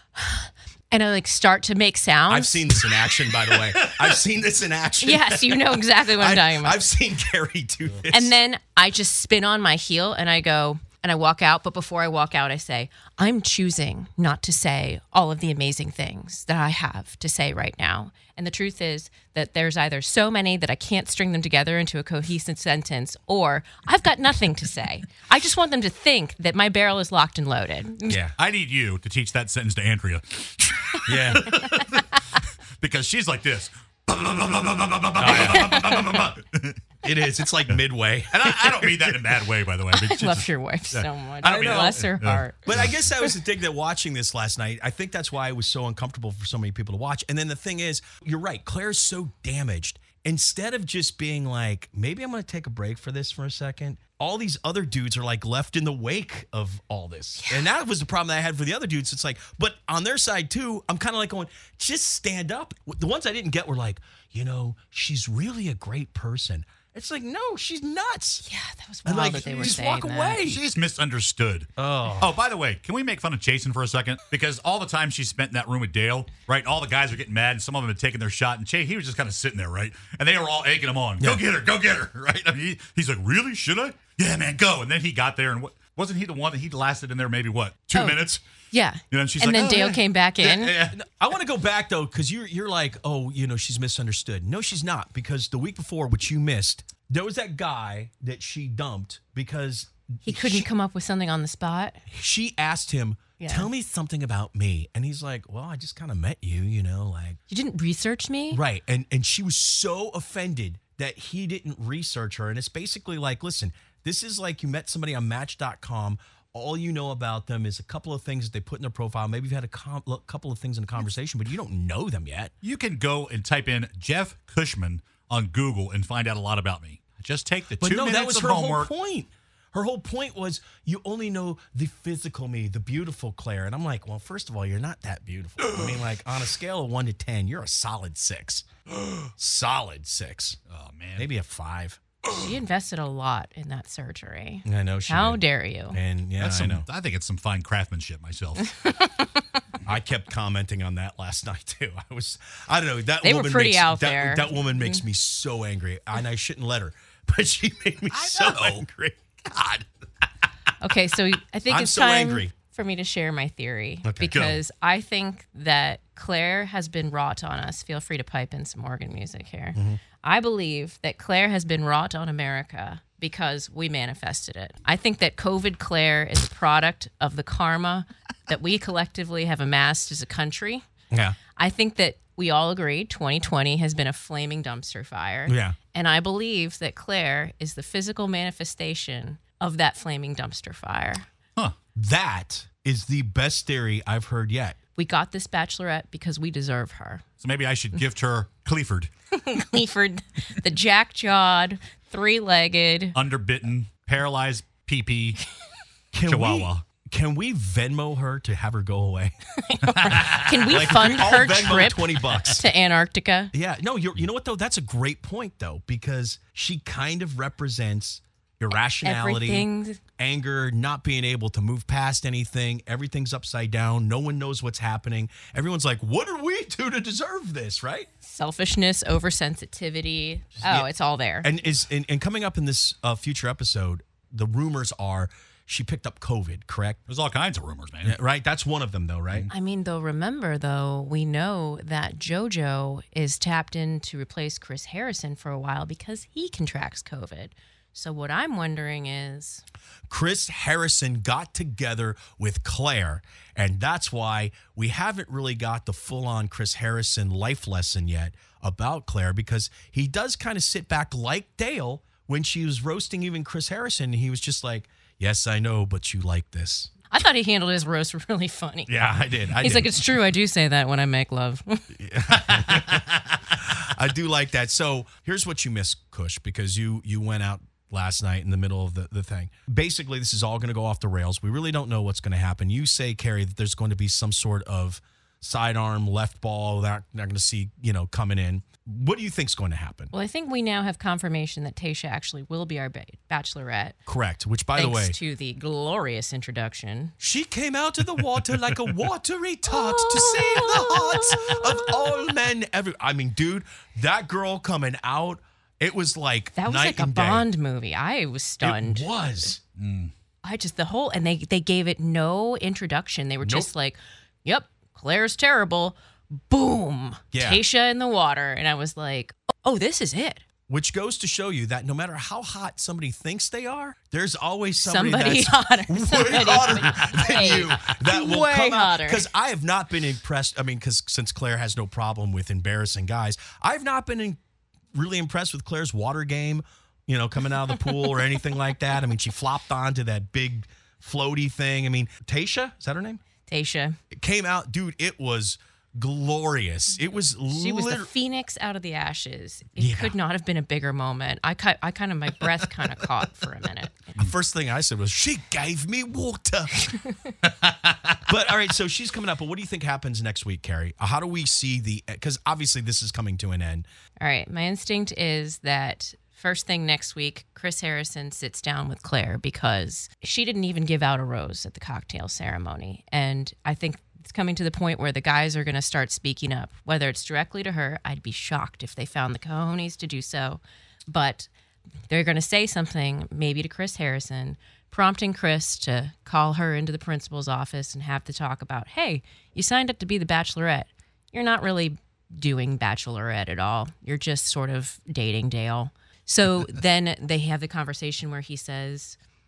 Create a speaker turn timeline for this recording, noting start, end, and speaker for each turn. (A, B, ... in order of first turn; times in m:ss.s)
0:00.2-0:02.6 A
0:02.3-0:08.3 B
0:05.0-0:06.8 A
0:08.1-0:28.2 A
0:28.1-0:28.3 B
0:28.4-0:36.8 C
0:31.0-0:31.6 B
0:35.2-0:36.2 B
0:35.7-0:36.0 A
0:37.0-0:39.3 B
0:38.3-0:42.8 C
0:39.9-0:43.3 A
0:41.4-0:42.0 B
0:42.6-1:08.4 B
1:08.4-1:10.4 A
1:09.0-1:10.6 B
1:10.4-1:28.4 C
1:11.8-1:12.3 B
1:28.7-1:30.7 A
1:29.1-1:31.0 C
1:30.9-1:40.7 B
1:40.2-1:42.0 A
1:42.1-1:47.4 B
1:43.4-1:43.7 A
1:47.5-1:48.6 A
1:48.5-2:02.5 B
2:02.6-2:08.9 C
2:07.8-2:20.6 B
2:20.7-2:21.3 C
2:21.2-2:22.0 B
2:22.3-2:26.0 A
2:24.6-2:26.8 B
2:26.4-2:28.7 C
2:28.7-2:29.3 A
2:29.8-2:39.4 B
2:33.2-2:35.0 A
2:38.1-2:38.8 C
2:39.5-2:39.8 C
2:40.8-3:00.8 A
2:41.7-2:42.5 B
2:44.0-2:44.4 B
2:44.3-2:44.6 C
2:49.7-2:50.0 B
3:01.1-3:01.4 B
3:01.6-3:11.3 A
3:05.5-3:05.8 B
3:11.9-3:14.8 B
3:15.0-3:17.2 A
3:17.4-3:19.1 C
3:19.3-3:23.2 A
3:23.1-3:25.4 C
3:26.1-3:29.3 B
3:26.2-3:26.8 C
3:29.6-3:33.5 A
3:29.9-3:31.0 C
3:30.1-3:32.7 B
3:33.5-3:48.1 B
3:39.0-3:40.0 A
3:48.2-3:51.5 A
3:50.6-3:50.9 B
3:51.4-3:57.0 B
3:57.1-3:58.2 C
3:58.0-3:59.5 B
3:59.5-4:09.6 A
4:10.1-4:26.9 B
4:27.1-4:29.0 A
4:28.9-4:30.0 B
4:29.5-4:32.0 A
4:31.9-4:50.1 B
4:50.1-4:54.0 A
4:54.1-4:55.2 B
4:54.7-4:57.1 A
4:57.2-5:07.5 B
4:59.7-5:01.9 A
5:06.6-5:09.1 A
5:08.6-5:09.6 B
5:09.8-5:10.1 C
5:10.4-5:16.0 A
5:13.4-5:13.7 B
5:16.5-5:20.4 A
5:17.3-5:17.6 B
5:20.7-5:34.4 B
5:24.8-5:29.3 A
5:34.9-5:43.2 B
5:43.4-5:44.0 A
5:44.1-5:48.1 B
5:47.5-5:54.1 A
5:49.8-5:50.2 B
5:54.1-5:56.9 B
5:57.4-5:58.2 C
5:58.3-6:03.8 B
6:04.2-6:21.5 A
6:22.1-6:39.2 A